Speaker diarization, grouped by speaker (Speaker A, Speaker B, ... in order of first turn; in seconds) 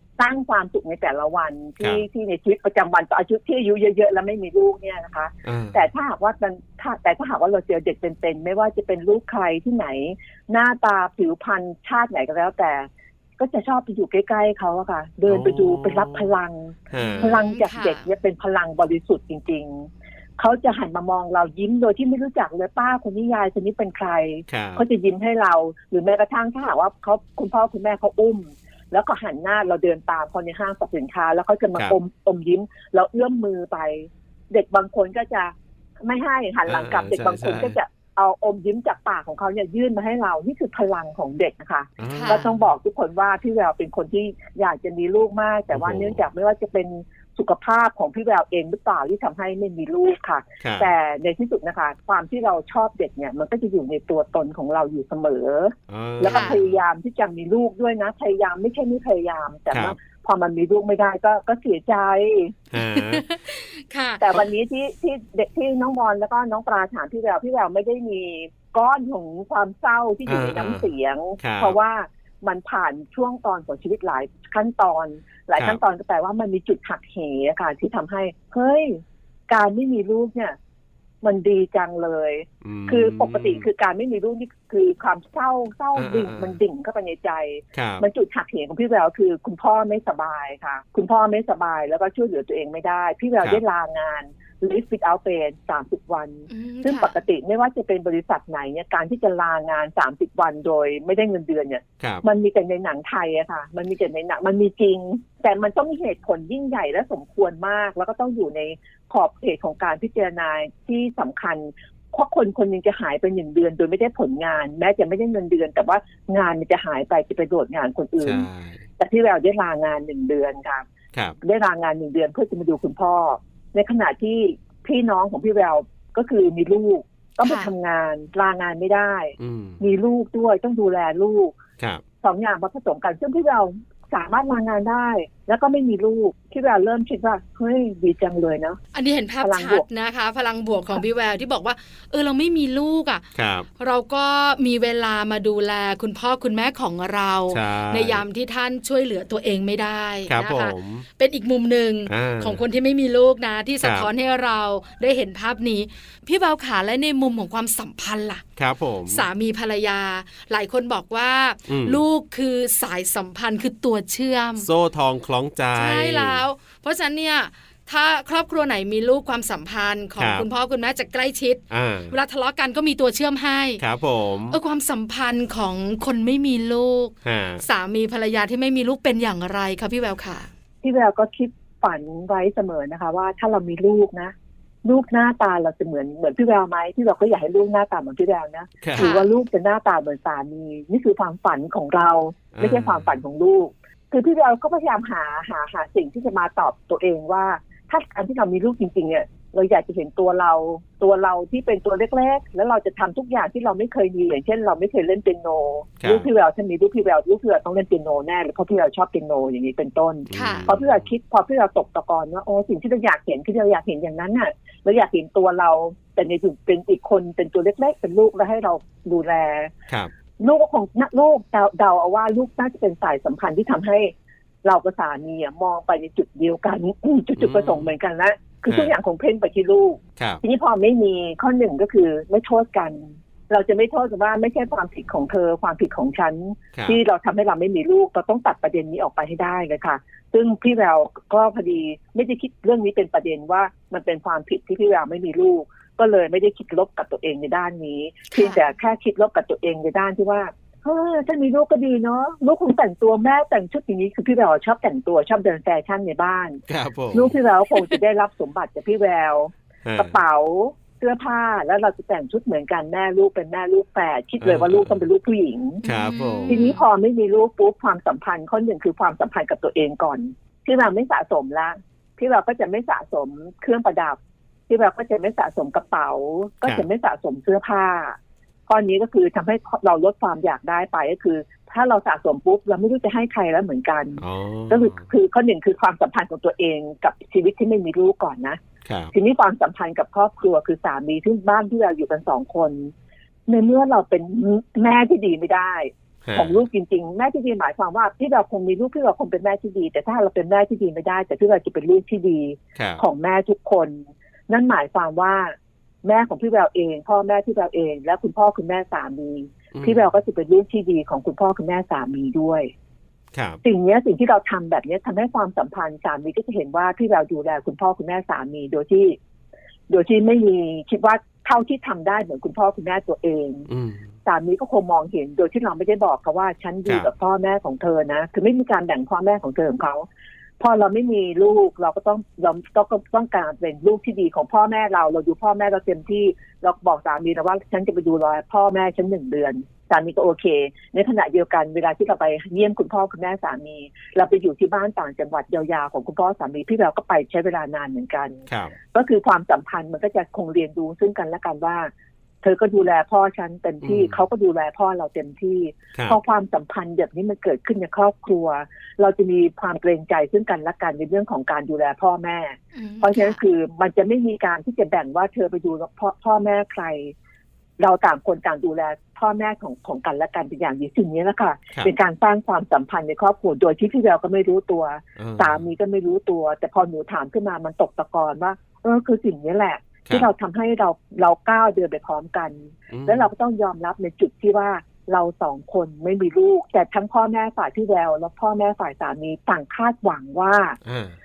Speaker A: 0.2-62.6, 64.2-80.6, 81.2-118.5, 119.0-120.8, 121.4-131.6, 132.2-138.8, 139.4-139.8, 180.8-219.7, 220.4-224.1, 224.6-256.6, 257.1-265.8, 266.5-288.6, 289.1-292.9, 293.5-312.7, 313.6-319.2, 319.9-323.7, 324.2-330.1, 330.6-351.9, 352.4-367.1, 367.8-390.8
Speaker B: 5.5-5.8, 15.3-16.3, 16.9-17.4, 24.5-24.9, 36.7-37.8, 42.0-42.6, 45.7-46.2, 50.6-50.9, 55.9-56.8, 59.7-60.0, 62.7-63.2, 70.3-70.9, 71.4-71.8, 82.6-83.7, 86.0-86.6, 87.8-88.1, 102.0-102.2, 118.2-118.8, 121.1-121.4, 129.4-129.8, 143.3-143.7, 147.5-148.2, 150.3-151.1, 152.1-152.6, 153.8-154.1, 158.6-159.3, 161.7-162.0, 164.6-166.4, 170.2-170.5, 171.7-172.1, 173.8-174.6, 177.2-177.6, 188.8-189.1, 192.5-193.2, 206.0-206.3, 210.3-211.0, 227.4-227.9, 256.7-257.3, 259.8-260.1, 264.4-265.0, 265.8-266.6, 284.2-285.1, 288.9-289.1, 296.2-296.6, 302.8-303.0, 309.7-310.0, 313.3-313.6, 323.7-324.1, 348.5-348.7, 353.8-354.2, 375.2-375.6, 382.9-383.3, 390.9-391.1
Speaker C: 17.0-18.1, 42.1-42.5, 56.2-56.6, 62.8-64.2, 96.5-97.2, 127.4-127.7, 138.9-143.2, 143.8-158.4, 159.1-164.7, 165.7-173.8, 174.5-180.5, 189.0-189.3, 210.3-210.7, 248.3-248.6, 265.8-266.9, 362.8-363.4